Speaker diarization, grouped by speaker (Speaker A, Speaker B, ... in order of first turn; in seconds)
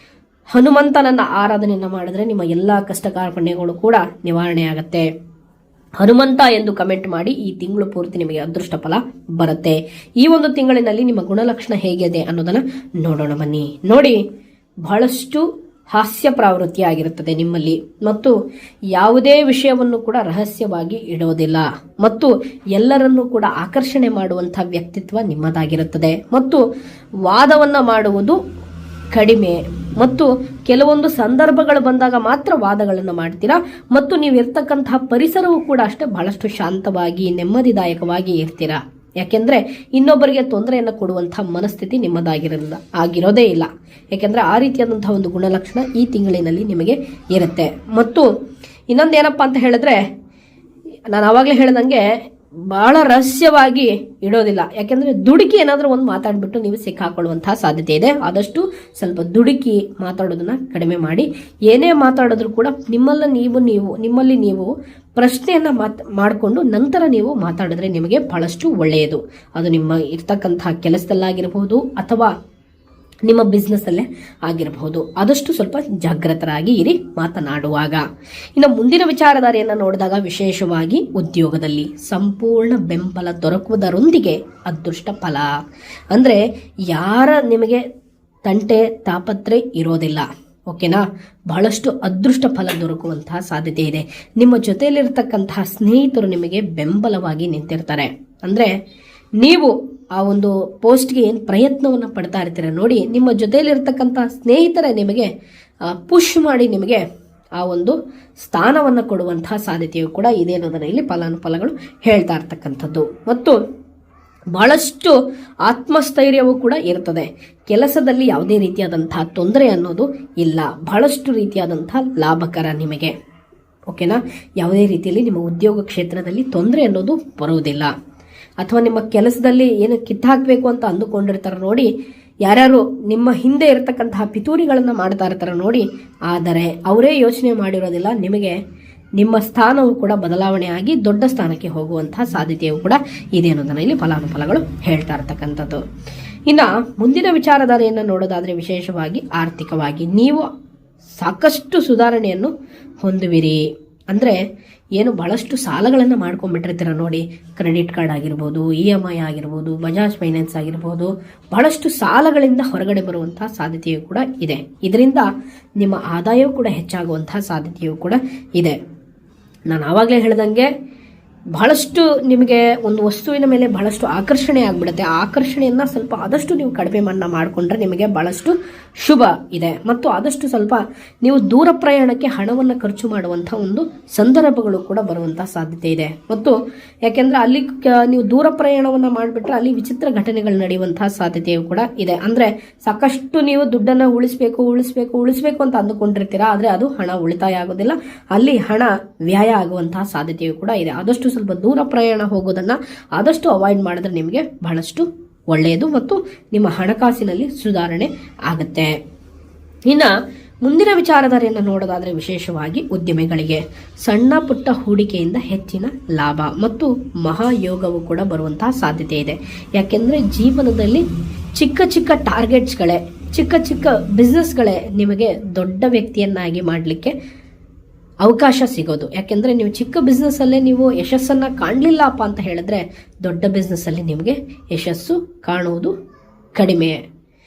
Speaker A: 0.5-5.0, 6.0-14.2, 14.8-18.3, 18.9-26.6, 27.2-28.4, 29.1-48.3, 48.9-50.0, 51.1-52.0, 52.7-72.3, 73.2-78.0, 78.5-85.5, 86.1-87.8, 88.5-98.7, 99.4-105.3, 105.9-107.0, 107.6-113.6, 114.5-123.1, 123.9-127.9, 128.6-131.9, 132.4-138.6, 139.2-145.8, 146.5-150.5, 151.2-153.6, 154.1-154.4, 155.0-165.2, 165.8-168.8, 169.7-170.7, 171.5-186.5, 187.1-208.9, 209.9-210.1, 210.6-221.0, 221.6-227.1, 228.2-235.9, 236.6-237.0